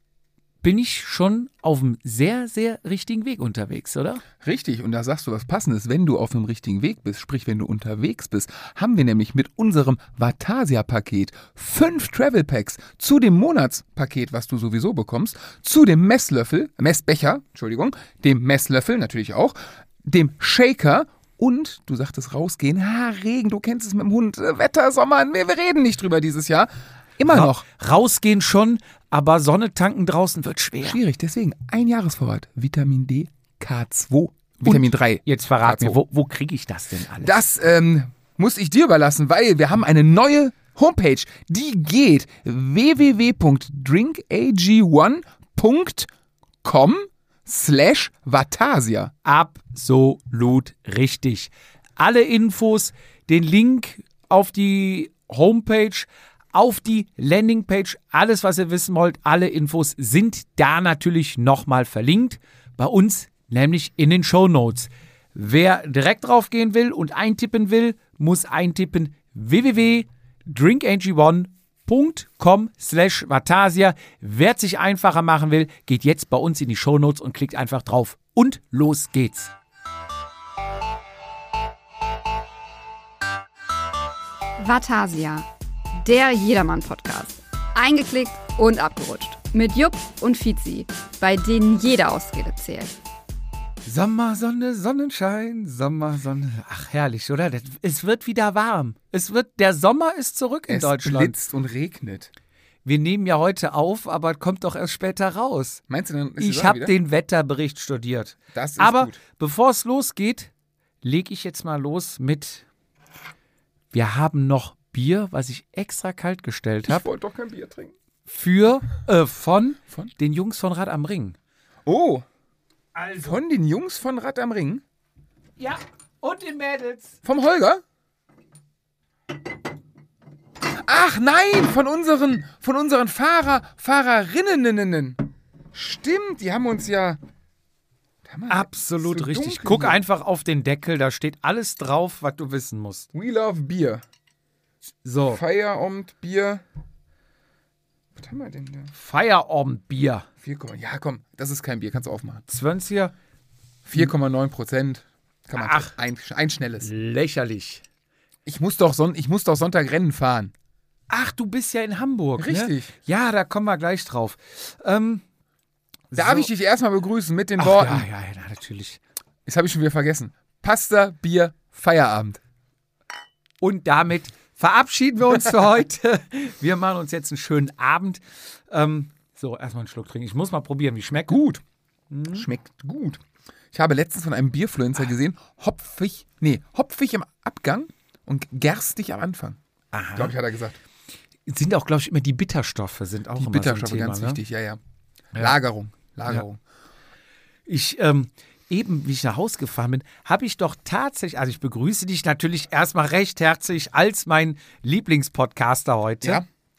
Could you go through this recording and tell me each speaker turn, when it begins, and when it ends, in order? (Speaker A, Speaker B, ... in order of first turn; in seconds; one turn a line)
Speaker A: 0.6-4.2
Speaker B: 4.4-27.6
Speaker A: 27.3-31.0
Speaker B: 30.8-36.0
Speaker A: 34.6-37.4
Speaker B: 37.2-46.1
Speaker B: 46.6-49.1
Speaker A: 49.2-79.5
Speaker C: 84.6-85.5
Speaker C: 86.0-93.0
Speaker A: 93.8-101.4
Speaker B: 100.7-102.3
Speaker A: 102.8-105.8
Speaker B: 105.9-106.9
Speaker A: 106.4-110.5
Speaker B: 108.5-109.2
Speaker A: 111.0-112.7
Speaker A: 113.9-117.1
Speaker B: 116.9-117.9
Speaker A: 118.3-121.4
Speaker B: 121.9-122.2
Speaker A: 123.0-123.3
Speaker B: 123.2-124.8
Speaker A: 125.6-127.2
Speaker B: 127.2-127.8
Speaker B: 130.8-135.2
Speaker B: 135.7-137.2
Speaker B: 138.3-140.0
Speaker A: 138.5-143.1
Speaker B: 143.1-144.0
Speaker A: 145.0-145.4
Speaker B: 145.3-146.6
Speaker B: 148.2-148.9
Speaker A: 148.9-150.3
Speaker B: 150.4-152.4
Speaker A: 152.5-153.2
Speaker B: 153.9-156.9
Speaker A: 155.5-155.9
Speaker A: 156.8-157.8
Speaker B: 158.5-160.5
Speaker A: 161.1-165.2
Speaker B: 162.4-162.9
Speaker A: 166.1-166.5
Speaker B: 166.1-168.1
Speaker A: 167.6-169.0
Speaker B: 169.5-172.4
Speaker A: 173.6-181.4
Speaker B: 181.3-181.6
Speaker A: 182.1-182.5
Speaker B: 182.3-183.2
Speaker B: 183.7-189.6
Speaker A: 189.9-190.3
Speaker B: 190.2-190.8
Speaker A: 191.5-194.4
Speaker B: 193.4-194.8
Speaker B: 195.3-196.6
Speaker A: 197.7-206.4